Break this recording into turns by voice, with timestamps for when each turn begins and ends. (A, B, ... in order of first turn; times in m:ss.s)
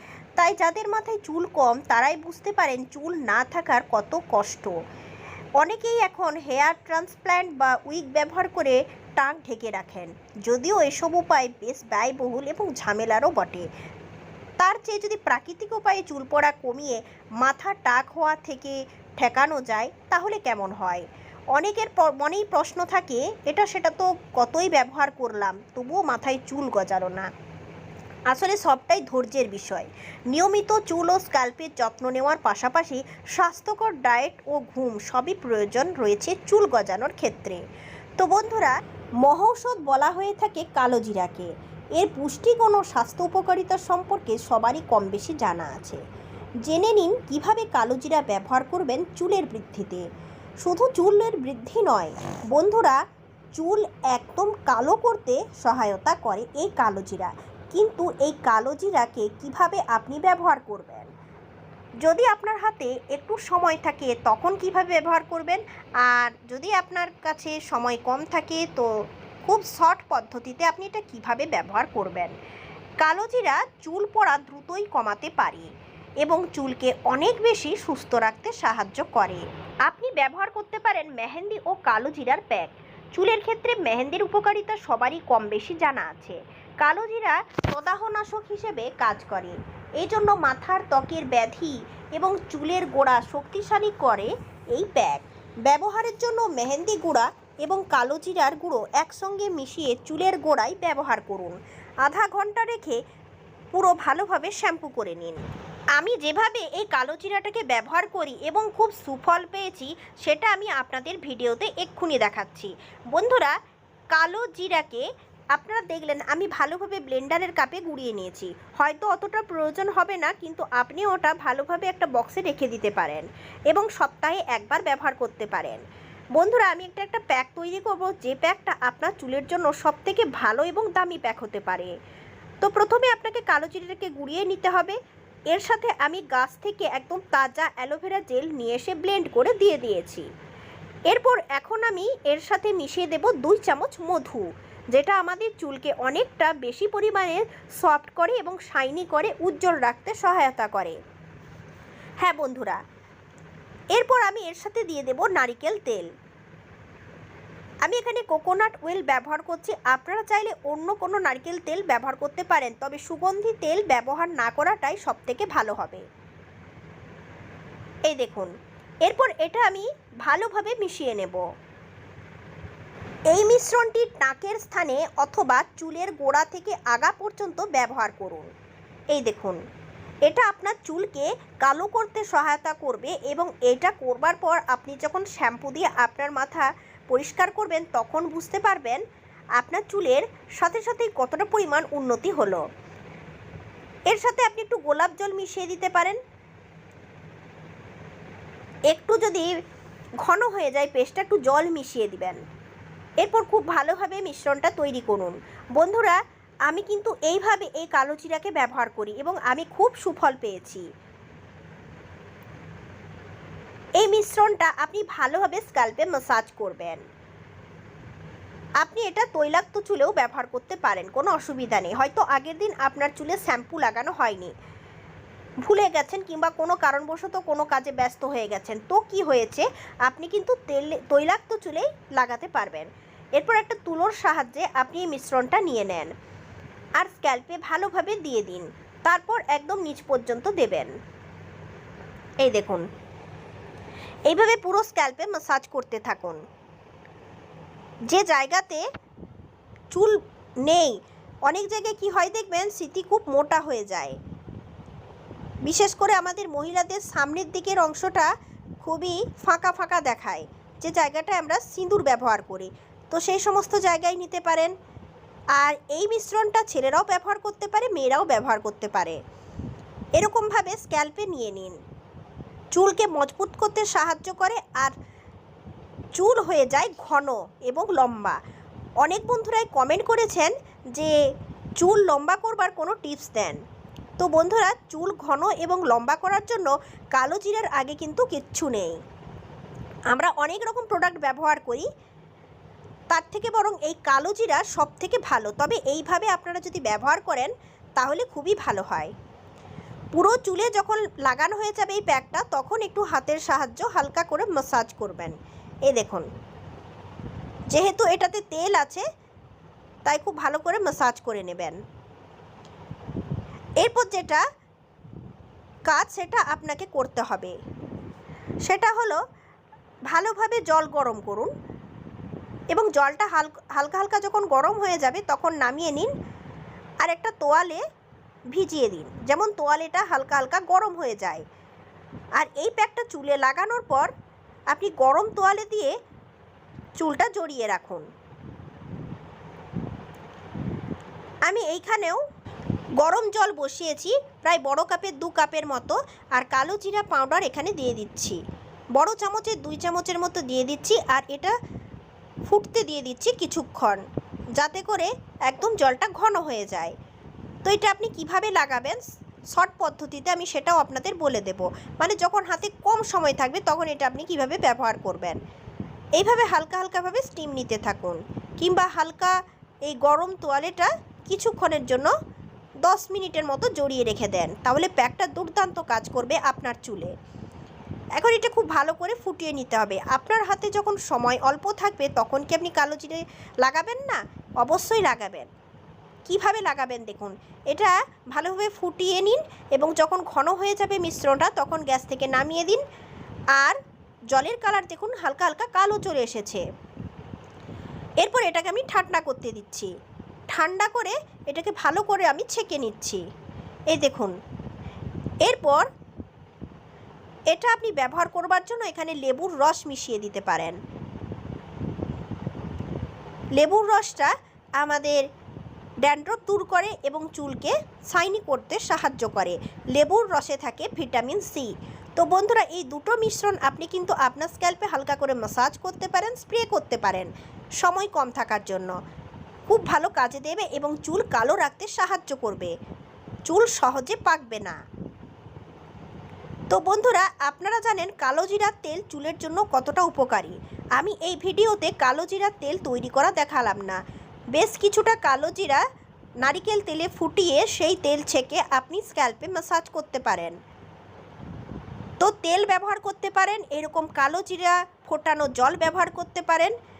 0:00.4-0:04.8 A
0:05.6-0:13.7 A
0:14.6-0:27.3 A
0:28.3-0:37.6 A
0:38.2-0:46.0 A
0:46.6-0:50.0 A
0:50.6-0:53.0 A
0:53.5-1:01.1 A
1:02.0-1:12.3 A
1:13.0-1:15.7 A
1:16.2-1:43.0 A
1:43.7-1:45.4 A
1:45.9-1:53.5 A
1:54.1-2:05.8 A
2:06.4-2:11.9 A
2:12.6-2:15.0 A
2:15.5-2:20.3 A
2:21.1-2:31.0 A
2:32.2-2:32.8 A
2:33.9-2:36.1 A
2:37.8-2:46.0 A
2:48.1-2:48.5 A
2:49.0-2:51.4 A
2:53.3-2:58.5 A
2:59.1-2:59.6 A
3:00.2-3:09.0 A
3:09.6-3:12.6 A
3:14.1-3:16.2 A
3:18.9-3:19.5 A
3:20.2-3:22.4 A
3:23.2-3:30.8 A
3:34.0-3:37.0 A
3:38.8-3:44.5 A
3:45.6-3:56.1 A
3:57.0-4:00.9 A
4:02.4-4:02.8 A
4:04.3-4:06.4 A
4:08.1-4:08.8 A
4:09.9-4:14.2 A
4:15.6-4:18.3 A
4:18.8-4:24.7 A
4:25.6-4:29.2 A
4:30.2-4:31.8 A
4:32.7-4:34.9 A
4:36.2-4:38.4 A
4:39.0-4:41.2 A
4:41.8-4:43.6 A
4:44.2-4:49.0 A
4:50.1-4:51.9 A
4:53.1-4:59.1 A
5:00.1-5:05.4 A
5:05.9-5:06.3 A
5:07.7-5:09.0 A
5:10.0-5:11.8 A
5:13.8-5:14.4 A
5:15.9-5:17.6 A
5:18.6-5:19.2 A
5:20.1-5:21.5 A
5:22.7-5:26.1 A
5:27.0-5:27.8 A
5:28.5-5:31.4 A
5:32.4-5:34.1 A
5:34.7-5:35.9 A
5:37.0-5:38.0 A
5:41.5-5:42.2 A
5:43.0-5:48.4 A
5:49.0-5:51.5 A
5:52.5-5:54.0 A
5:54.6-5:56.9 A
5:57.6-5:59.0 A
5:59.5-6:05.4 A
6:06.2-6:09.3 A
6:09.9-6:12.1 A
6:12.8-6:17.1 A
6:18.2-6:25.5 A
6:26.2-6:32.8 A
6:34.3-6:36.6 A
6:38.2-6:39.9 A
6:40.5-6:43.2 A
6:43.9-6:44.3 A
6:45.4-6:45.9 A
6:47.5-6:50.8 A
6:53.6-6:55.2 A
6:56.0-7:08.9 A
7:09.7-7:12.7 A
7:13.5-7:14.8 A
7:16.7-7:24.0 A
7:24.5-7:25.8 A
7:26.4-7:30.6 A
7:32.2-7:36.7 A